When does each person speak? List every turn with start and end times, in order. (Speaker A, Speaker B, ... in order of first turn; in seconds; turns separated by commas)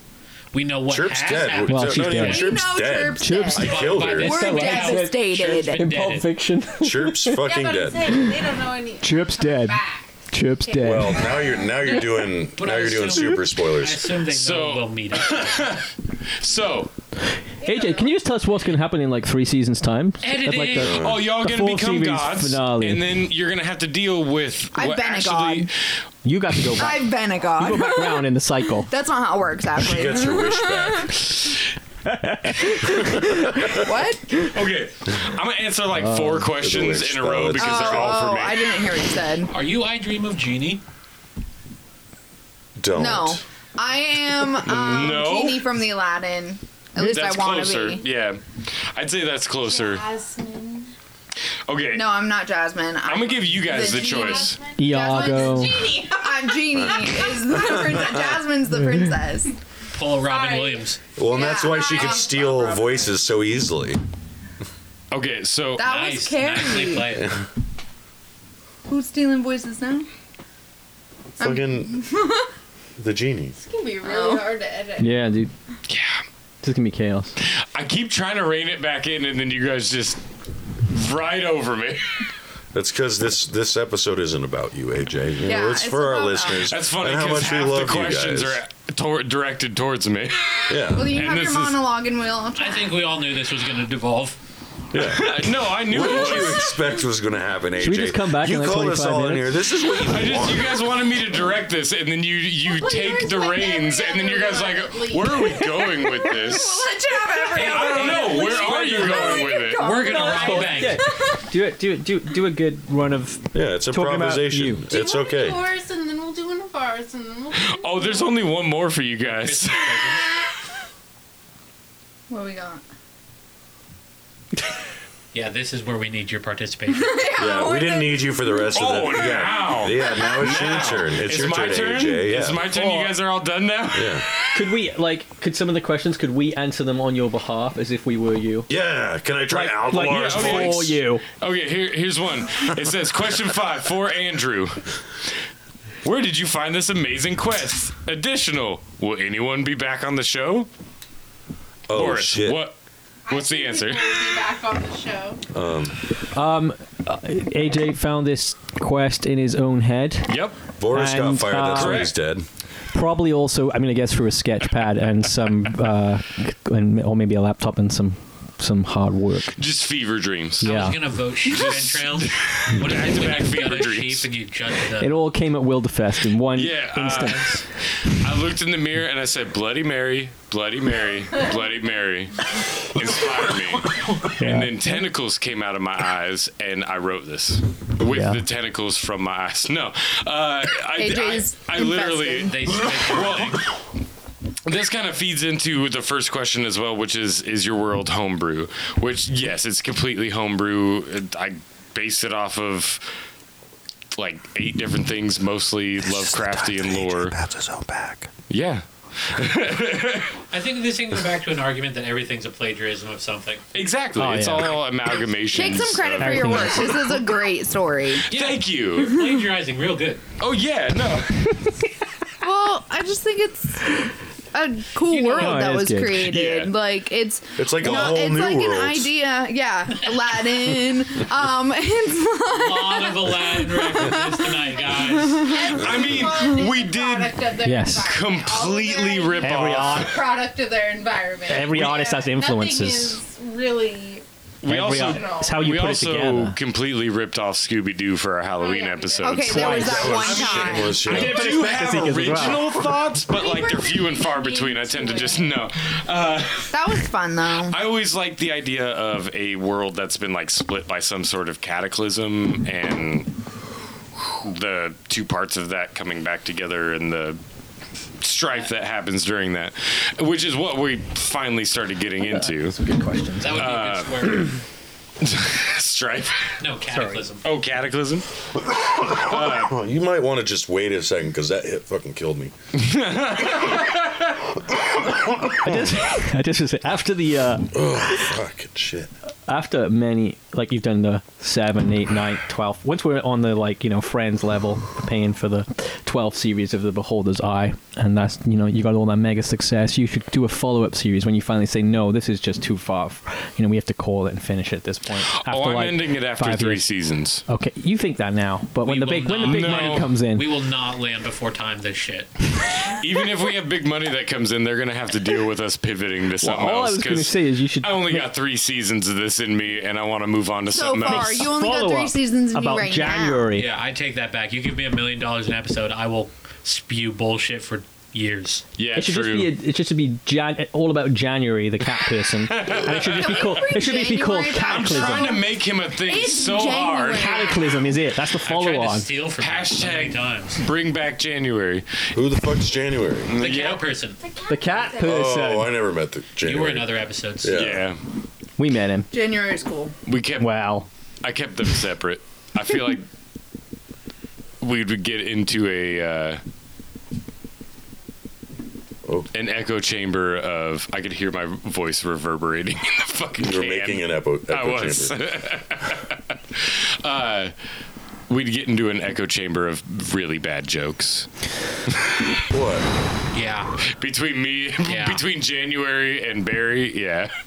Speaker A: 0.5-2.4, Speaker B: 0.9-4.3, Speaker C: 1.6-2.5, Speaker D: 2.2-5.9, Speaker C: 3.2-7.5, Speaker A: 3.5-6.3, Speaker B: 6.8-8.2, Speaker E: 7.4-12.2, Speaker C: 8.1-8.4, Speaker C: 9.0-11.3, Speaker B: 10.8-14.1, Speaker A: 12.6-15.6, Speaker F: 14.3-16.9, Speaker E: 17.6-18.1, Speaker C: 17.6-23.1, Speaker A: 20.2-21.0, Speaker B: 20.8-21.2, Speaker F: 20.9-25.7, Speaker D: 24.7-25.7, Speaker C: 26.2-28.9, Speaker D: 26.8-28.3, Speaker D: 28.9-31.1, Speaker B: 29.8-31.2, Speaker C: 32.1-33.2, Speaker B: 33.0-33.8, Speaker D: 33.6-34.4, Speaker F: 34.4-38.8, Speaker C: 35.9-36.5, Speaker B: 36.5-38.3, Speaker D: 37.6-39.5, Speaker A: 39.5-40.8, Speaker B: 42.8-43.4, Speaker D: 42.9-48.0, Speaker F: 44.6-45.6, Speaker F: 47.0-50.0, Speaker E: 49.6-50.9, Speaker F: 51.7-52.1, Speaker D: 51.9-59.5, Speaker F: 53.0-54.6, Speaker E: 53.6-57.3, Speaker C: 54.8-55.9, Speaker B: 57.6-58.2, Speaker A: 59.9-61.0, Speaker E: 60.2-63.2, Speaker B: 61.2-64.0, Speaker D: 61.3-62.4, Speaker F: 65.1-65.9, Speaker D: 65.8-67.1, Speaker A: 65.8-67.3, Speaker B: 67.2-67.4, Speaker D: 68.9-70.1, Speaker D: 71.4-72.5, Speaker B: 71.4-72.0, Speaker B: 73.0-73.5, Speaker E: 73.5-75.1, Speaker D: 74.0-74.5, Speaker C: 75.0-75.5, Speaker F: 75.9-76.2, Speaker C: 76.6-77.3, Speaker F: 77.4-80.2, Speaker F: 80.9-82.1, Speaker B: 82.7-88.6, Speaker D: 85.4-86.7, Speaker F: 86.5-91.8, Speaker B: 90.7-91.2, Speaker D: 90.9-92.9, Speaker A: 92.5-94.4, Speaker B: 94.9-100.8, Speaker F: 94.9-96.8, Speaker C: 97.8-99.6, Speaker F: 99.9-106.9, Speaker E: 102.6-106.1, Speaker D: 106.2-111.4, Speaker F: 107.5-109.9, Speaker E: 107.7-108.2, Speaker C: 108.0-109.5, Speaker A: 109.7-111.0, Speaker C: 110.0-114.8, Speaker E: 110.1-110.6, Speaker B: 113.5-115.6, Speaker E: 114.9-118.3, Speaker F: 117.5-120.2, Speaker A: 119.2-120.2, Speaker D: 122.3-122.8, Speaker A: 125.3-127.2, Speaker D: 126.9-128.7, Speaker B: 127.4-132.6, Speaker F: 128.7-134.3, Speaker C: 132.6-133.1, Speaker B: 133.9-134.2, Speaker C: 134.5-138.7, Speaker B: 138.7-140.9, Speaker C: 139.5-141.2, Speaker F: 140.1-144.9, Speaker F: 146.0-150.7, Speaker B: 151.9-152.6, Speaker F: 151.9-152.8, Speaker E: 153.2-155.4, Speaker F: 153.3-154.2, Speaker B: 155.5-156.0, Speaker C: 156.3-162.1, Speaker F: 160.3-160.6, Speaker B: 160.8-162.4, Speaker F: 161.7-162.1, Speaker C: 162.9-169.5, Speaker F: 169.5-170.8, Speaker C: 170.6-171.0, Speaker A: 170.6-175.2, Speaker F: 171.4-174.3, Speaker C: 175.0-177.6, Speaker F: 176.5-193.8, Speaker A: 177.1-177.4, Speaker C: 184.2-185.0, Speaker C: 188.0-188.4, Speaker D: 190.9-192.6, Speaker A: 192.4-193.7, Speaker F: 194.6-203.0, Speaker F: 204.1-207.4, Speaker B: 206.0-208.3, Speaker F: 208.5-210.4, Speaker A: 210.5-213.6, Speaker F: 213.7-217.0, Speaker C: 214.1-214.8, Speaker D: 215.5-218.2, Speaker C: 215.6-217.2, Speaker F: 218.2-219.2, Speaker A: 218.3-220.2, Speaker F: 220.4-221.5, Speaker D: 222.4-223.9, Speaker D: 224.5-235.8, Speaker A: 225.1-225.7, Speaker C: 225.3-226.2, Speaker F: 226.2-226.7, Speaker B: 227.6-229.1, Speaker A: 232.5-235.7, Speaker E: 235.3-244.2, Speaker F: 235.7-237.4, Speaker C: 237.6-238.1, Speaker F: 238.0-240.2, Speaker C: 239.4-240.2, Speaker C: 241.5-243.2, Speaker F: 244.6-257.0, Speaker C: 244.6-246.6, Speaker E: 244.9-245.6, Speaker E: 248.6-249.4, Speaker D: 249.2-251.1, Speaker C: 249.4-250.3, Speaker B: 249.7-251.5, Speaker C: 251.0-252.9, Speaker E: 253.2-255.6, Speaker D: 256.7-257.8, Speaker F: 257.6-263.3, Speaker F: 264.2-267.4, Speaker F: 268.2-272.8, Speaker C: 272.2-273.7, Speaker A: 273.4-274.6, Speaker F: 273.5-274.5, Speaker F: 275.2-276.6, Speaker A: 276.6-277.4, Speaker C: 276.9-277.3, Speaker F: 277.4-278.3, Speaker B: 278.6-282.5, Speaker F: 279.1-279.8, Speaker F: 282.7-284.4, Speaker B: 284.7-286.0, Speaker C: 285.6-288.3, Speaker B: 287.7-289.1, Speaker C: 289.5-306.8, Speaker F: 305.2-307.4, Speaker C: 307.5-310.5, Speaker A: 308.8-312.3, Speaker F: 309.4-310.1, Speaker F: 312.9-321.5, Speaker C: 316.4-318.3, Speaker D: 320.7-323.5, Speaker C: 321.0-323.7, Speaker A: 323.5-328.6, Speaker F: 328.8-329.5, Speaker C: 328.9-335.4, Speaker F: 332.4-333.6, Speaker D: 332.7-337.8, Speaker F: 334.6-337.5, Speaker C: 337.1-339.1, Speaker A: 338.4-340.6, Speaker F: 339.4-341.9, Speaker B: 342.1-343.3, Speaker F: 343.3-343.8, Speaker A: 343.4-344.2, Speaker E: 344.2-345.2, Speaker C: 344.5-345.8, Speaker B: 345.0-347.8, Speaker A: 346.4-347.6, Speaker F: 347.5-348.0, Speaker C: 348.6-349.1, Speaker D: 349.1-349.9, Speaker F: 350.1-350.6, Speaker C: 350.4-350.9, Speaker F: 351.2-353.1, Speaker F: 354.6-356.4, Speaker F: 359.3-367.5, Speaker B: 363.4-365.1, Speaker F: 368.3-371.3, Speaker F: 371.9-372.2, Speaker B: 372.5-372.9, Speaker A: 373.3-373.8, Speaker F: 373.8-377.3, Speaker A: 374.8-375.2